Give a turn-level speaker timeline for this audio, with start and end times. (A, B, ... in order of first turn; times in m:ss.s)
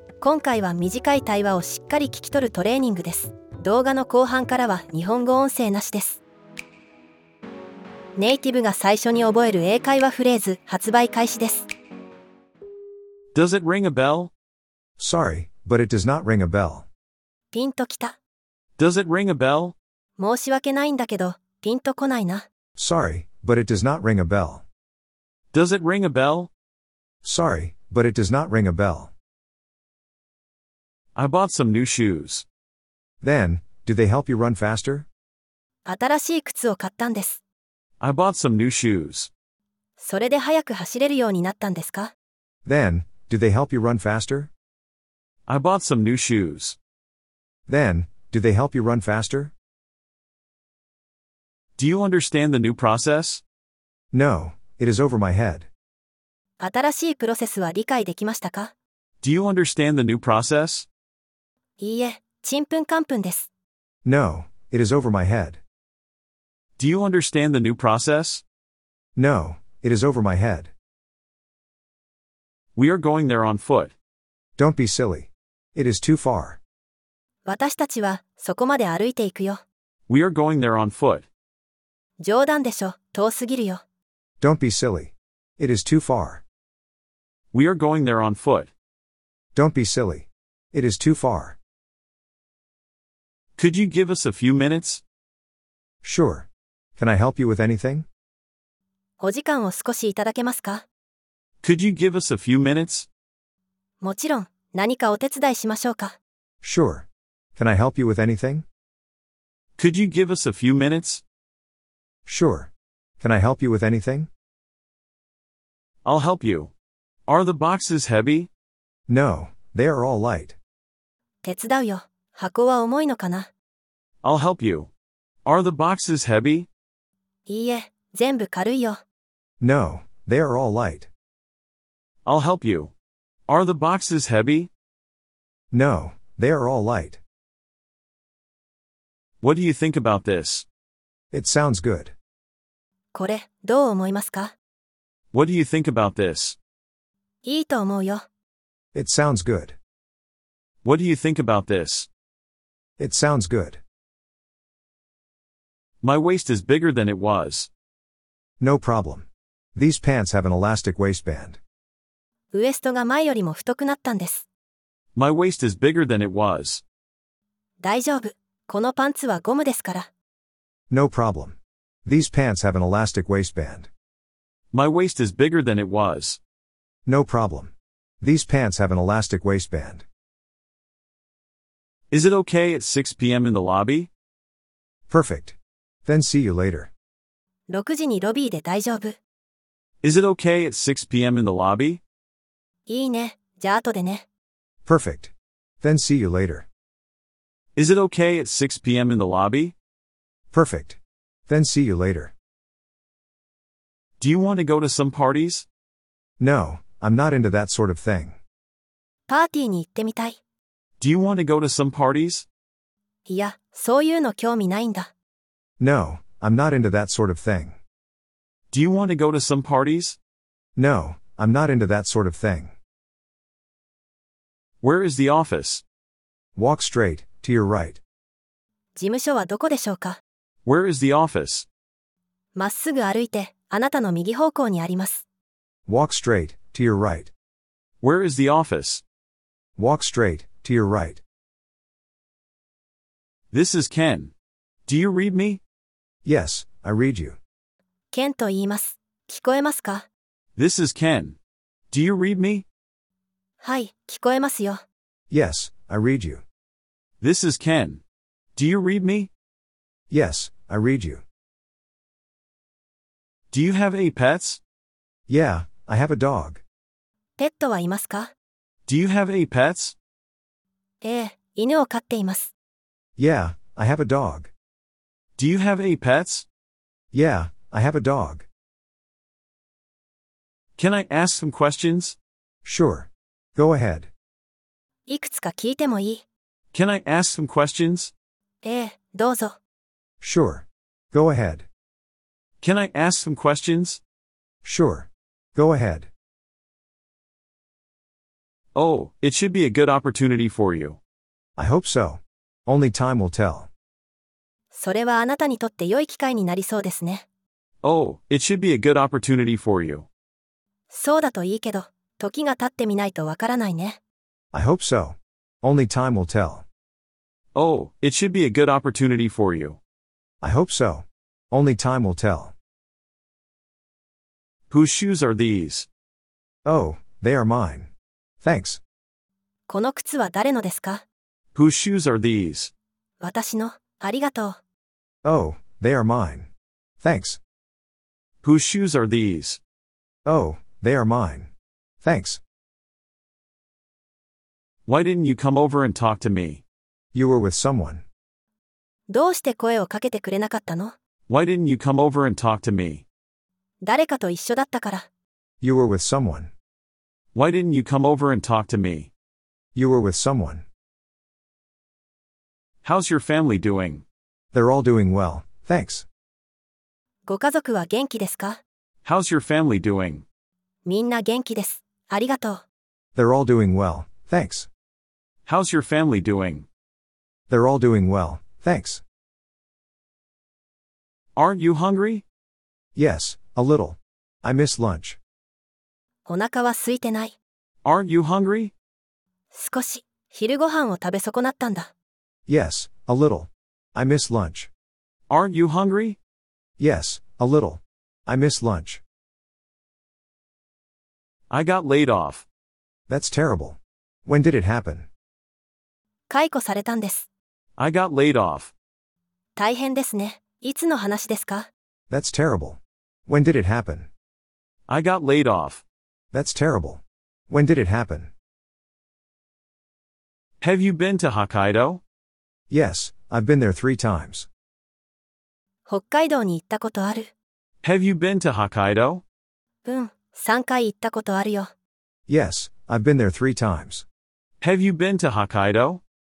0:00.2-0:06.2 A
0:08.2-0:11.7 A
0:13.3-0:14.3 B
0:15.0-0:16.8 C
0:17.5-0:18.2 A
0:18.8-0:19.7 B
0:20.2-0:22.4 A
0:22.8-0:24.6 C
0:25.5-0:26.5 B
0:27.2-0:29.1 C
0:31.1-0:32.4 B
0:33.2-0:35.0 C
0:35.8-0:37.4 A
0:38.0-0:39.3 B
0:40.0-0:42.1 A
0:42.6-0:44.5 C
0:45.5-0:46.8 B
0:47.7-0:49.5 C
0:51.8-0:53.4 B
0:54.1-0:55.7 C
0:56.6-0:58.7 A
0:59.2-1:00.9 B
1:01.8-1:03.5 A
1:04.0-1:05.6 C
1:06.8-1:08.4 B
1:09.2-1:10.7 C
1:12.7-1:13.9 B
1:14.6-1:16.6 C
1:17.4-1:19.6 A
1:20.1-1:21.3 B
1:22.2-1:23.8 A
1:24.4-1:26.4 C
1:27.5-1:28.7 B
1:29.5-1:31.6 C
1:33.6-1:35.0 B
1:36.0-1:38.0 C
1:39.2-1:40.8 A
1:41.6-1:43.1 B
1:44.0-1:46.2 A
1:46.6-1:48.6 C
1:49.8-1:51.2 B
1:52.2-1:54.3 C
1:56.0-1:56.7 B
1:57.3-1:58.5 B
1:59.1-2:00.6 C
2:01.4-2:03.5 A
2:04.2-2:04.9 B
2:05.4-2:06.7 B
2:07.5-2:09.0 A
2:09.6-2:11.1 C
2:12.2-2:12.9 B
2:13.5-2:14.7 B
2:15.7-2:17.2 C
2:19.4-2:20.6 B
2:21.3-2:22.1 C
2:23.1-2:24.5 A
2:25.3-2:26.6 B
2:27.4-2:28.2 A
2:28.9-2:29.8 C
2:30.8-2:32.1 B
2:33.0-2:33.8 C
2:36.0-2:37.7 B
2:38.6-2:41.6 C
2:42.5-2:44.4 A
2:45.1-2:46.8 B
2:47.8-2:50.1 A
2:50.9-2:53.9 C
2:54.7-2:56.4 B
2:57.0-3:00.0 C
3:02.1-3:04.1 B
3:05.1-3:06.9 C
3:07.7-3:09.2 A
3:10.0-3:12.0 B
3:12.9-3:14.2 A
3:14.8-3:15.3 C
3:15.8-3:16.6 C
3:17.8-3:19.7 B
3:20.5-3:22.3 C
3:24.2-3:25.6 B
3:26.4-3:28.4 C
3:29.3-3:30.4 A
3:31.0-3:32.4 B
3:33.3-3:35.1 A
3:35.8-3:37.8 C
3:38.7-3:40.2 B
3:40.8-3:42.7 C
3:44.8-3:45.8 B
3:46.6-3:48.0 C
3:49.0-3:50.2 A
3:50.6-3:51.6 B
3:52.6-3:55.2 A
3:55.9-3:57.3 C
3:58.0-3:59.0 B
3:59.8-4:01.2 C
4:03.5-4:04.3 B
4:04.9-4:05.6 B
4:06.2-4:07.4 C
4:08.1-4:10.1 A
4:10.6-4:11.4 B
4:11.9-4:12.6 B
4:13.6-4:14.8 A
4:15.3-4:16.4 C
4:17.2-4:18.0 B
4:18.6-4:19.3 B
4:20.1-4:21.2 C
4:23.5-4:24.6 B
4:25.3-4:26.6 C
4:27.4-4:28.3 A
4:28.9-4:29.9 B
4:31.0-4:32.5 A
4:33.2-4:34.5 C
4:35.4-4:36.4 B
4:37.1-4:38.4 C
4:40.8-4:42.2 B
4:42.6-4:44.1 C
4:45.1-4:46.2 A
4:46.7-4:48.1 B
4:48.6-4:49.6 A
4:50.2-4:51.6 C
4:52.6-4:54.0 B
4:54.6-4:56.1 C
4:58.7-5:01.0 B
5:01.6-5:03.7 C
5:04.7-5:07.2 A
5:07.8-5:10.0 B
5:10.9-5:14.0 A
5:14.5-5:16.6 C
5:17.5-5:19.8 B
5:20.4-5:22.5 C
5:24.7-5:25.9 B
5:26.6-5:27.9 C
5:28.4-5:28.8 C
5:29.7-5:31.0 A
5:31.5-5:32.7 B
5:33.2-5:34.6 A
5:35.2-5:36.5 C
5:37.0-5:37.4 C
5:38.4-5:39.6 B
5:40.2-5:41.5 C
5:42.0-5:42.4 C
5:44.9-5:46.6 B
5:47.1-5:48.0 C
5:49.1-5:51.0 A
5:51.3-5:53.0 B
5:53.8-5:55.0 A
5:55.6-5:56.5 C
5:57.3-5:59.1 B
5:59.7-6:00.6 C
6:02.8-6:04.0 B
6:04.5-6:06.0 C
6:07.3-6:08.6 A
6:09.0-6:10.2 B
6:10.8-6:12.6 A
6:13.1-6:14.7 C
6:15.4-6:16.6 B
6:17.5-6:19.0 C
6:21.4-6:22.2 B
6:23.0-6:25.2 C
6:26.2-6:27.4 A
6:27.8-6:28.7 B
6:29.5-6:31.9 A
6:32.5-6:34.7 C
6:35.3-6:36.2 B
6:36.8-6:39.0 C
6:41.5-6:42.4 B
6:43.1-6:45.1 C
6:46.3-6:47.3 A
6:47.8-6:48.7 B
6:49.6-6:51.7 A
6:52.1-6:54.1 C
6:54.9-6:55.8 B
6:56.3-6:58.3 C
7:00.6-7:02.0 B
7:02.7-7:04.5 C
7:05.9-7:07.3 A
7:07.8-7:09.2 B
7:09.8-7:11.7 A
7:12.3-7:14.0 C
7:14.6-7:16.0 B